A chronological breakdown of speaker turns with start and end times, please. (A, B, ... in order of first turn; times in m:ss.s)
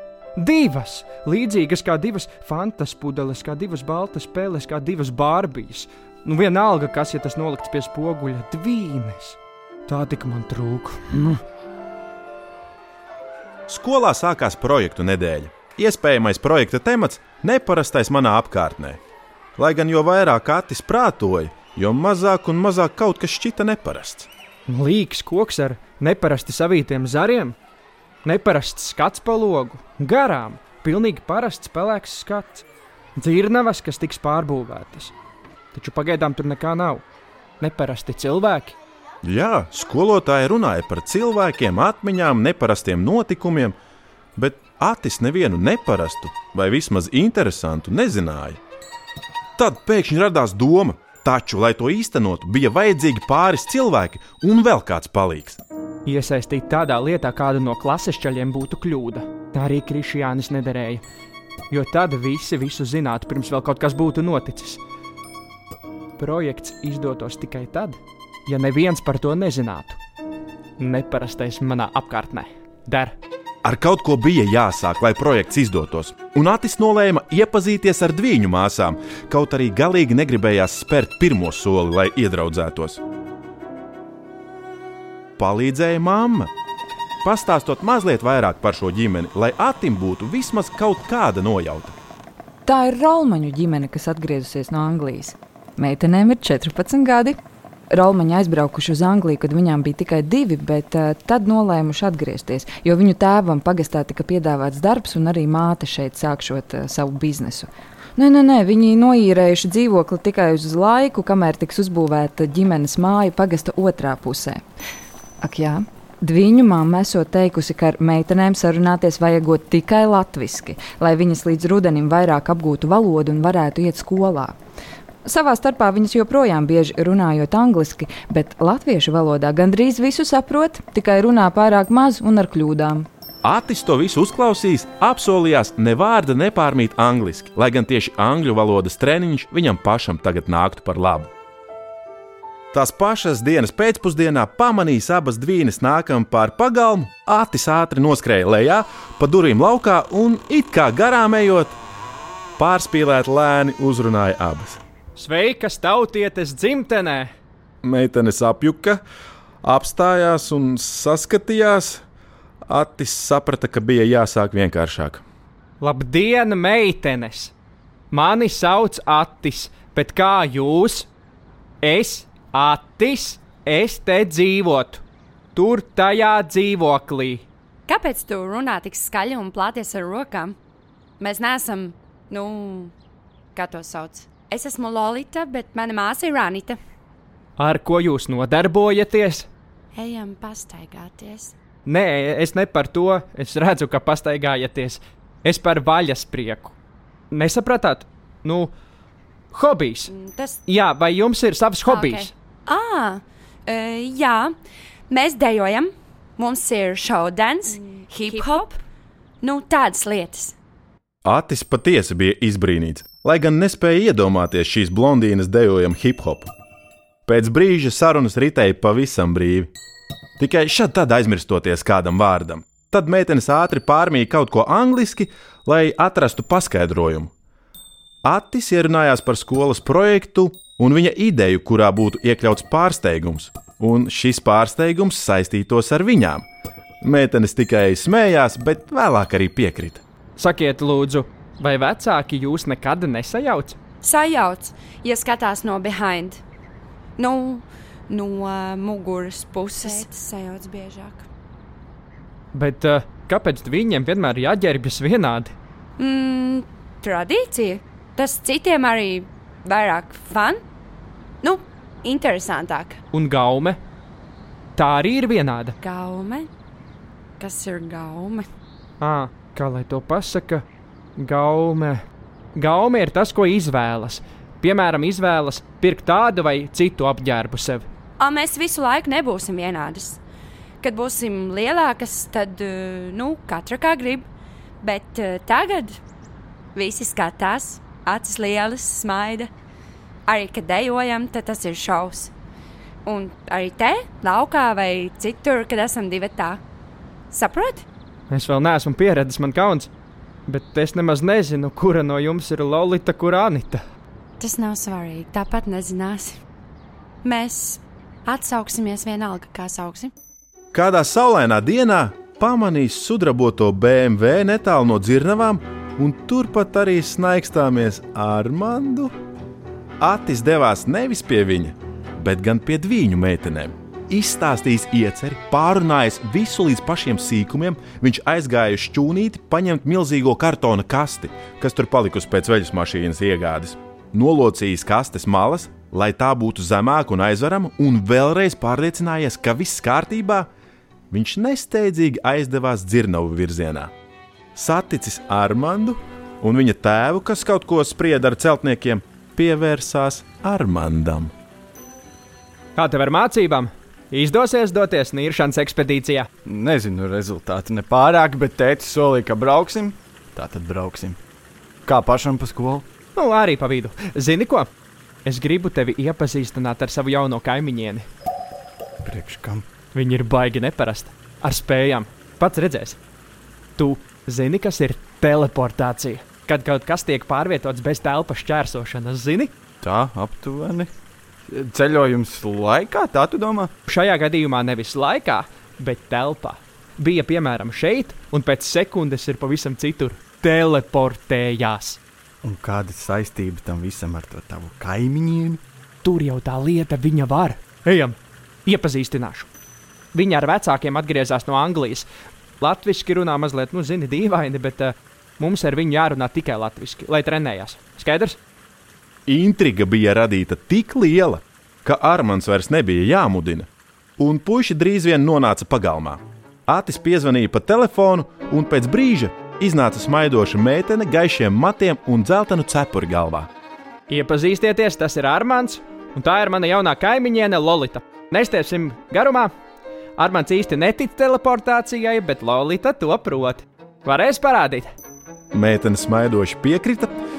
0:00.4-0:11.4 A
0:13.7-0:19.0 B
0:19.6-0:24.3 B
0:24.7-0:27.6 A
0:28.2-0:32.6 A
0:33.2-0:35.1 A
0:35.7-0:37.0 A
0:37.6-0:38.7 A
0:39.2-0:43.8 B
0:44.4-0:48.6 B
0:49.6-0:55.6 B
0:56.1-1:01.0 A
1:01.7-1:04.8 A
1:06.2-1:10.0 A
1:10.8-1:13.2 A
1:13.6-1:23.0 B
1:25.4-1:26.5 B
1:27.2-1:31.9 B
1:32.6-1:37.4 C
1:37.9-1:54.6 C
1:55.4-2:04.5 C
2:05.2-2:13.1 C
2:13.4-2:21.3 B
2:22.7-2:31.8 B
2:32.6-2:34.8 B
2:35.2-2:37.3 A
2:37.8-2:39.0 B
2:39.6-2:42.0 B
2:42.7-2:45.2 B
2:45.8-2:47.5 A
2:48.1-2:51.1 A
2:51.8-2:55.0 A
2:55.5-2:57.4 A
2:57.9-3:00.6 D
3:01.2-3:02.9 D
3:03.5-3:06.8 D
3:07.6-3:09.5 A
3:09.9-3:11.5 D
3:11.8-3:16.8 A
3:17.3-3:18.7 A
3:19.5-3:20.1 A
3:20.1-3:20.6 D
3:20.6-3:22.3 A
3:21.8-3:24.5 D
3:25.1-3:28.8 D
3:29.4-3:30.6 D
3:31.2-3:36.5 B
3:37.2-3:39.7 B
3:40.4-3:47.3 B
3:48.2-3:56.5 B
3:57.0-4:00.0 B
4:00.4-4:03.8 A
4:04.0-4:06.4 D
4:07.2-4:11.3 D
4:12.5-4:15.5 A
4:16.0-4:20.6 D
4:21.4-4:23.0 D
4:23.1-4:23.8 A
4:24.8-4:25.8 A
4:25.8-4:26.5 D
4:27.4-4:28.5 D
4:29.0-4:30.6 A
4:31.2-4:32.0 A
4:32.6-4:37.9 A
4:38.2-4:40.2 D
4:40.8-4:44.3 D
4:44.8-4:46.0 D
4:46.8-4:49.5 D
4:50.3-4:52.3 D
4:53.0-4:56.6 D
4:57.3-4:57.9 D
4:58.3-4:59.9 A
5:00.5-5:03.8 A
5:04.4-5:06.4 D
5:07.2-5:10.1 D
5:10.7-5:19.1 B
5:20.0-5:40.5 B
5:41.1-5:43.9 B
5:44.6-5:51.3 B
5:52.8-5:56.3 A
5:56.4-6:01.2 E
6:01.9-6:02.9 E
6:03.2-6:04.7 A
6:05.2-6:08.0 A
6:09.0-6:09.6 E
6:09.9-6:13.0 A
6:13.8-6:19.5 A
6:19.8-6:20.9 E
6:21.5-6:23.7 E
6:23.9-6:32.0 A
6:32.4-6:35.6 E
6:36.0-6:39.5 A
6:40.1-6:42.0 A
6:42.6-6:48.4 A
6:49.3-7:03.5 B
7:04.1-7:09.5 A
7:10.2-7:14.9 A
7:15.5-7:17.2 B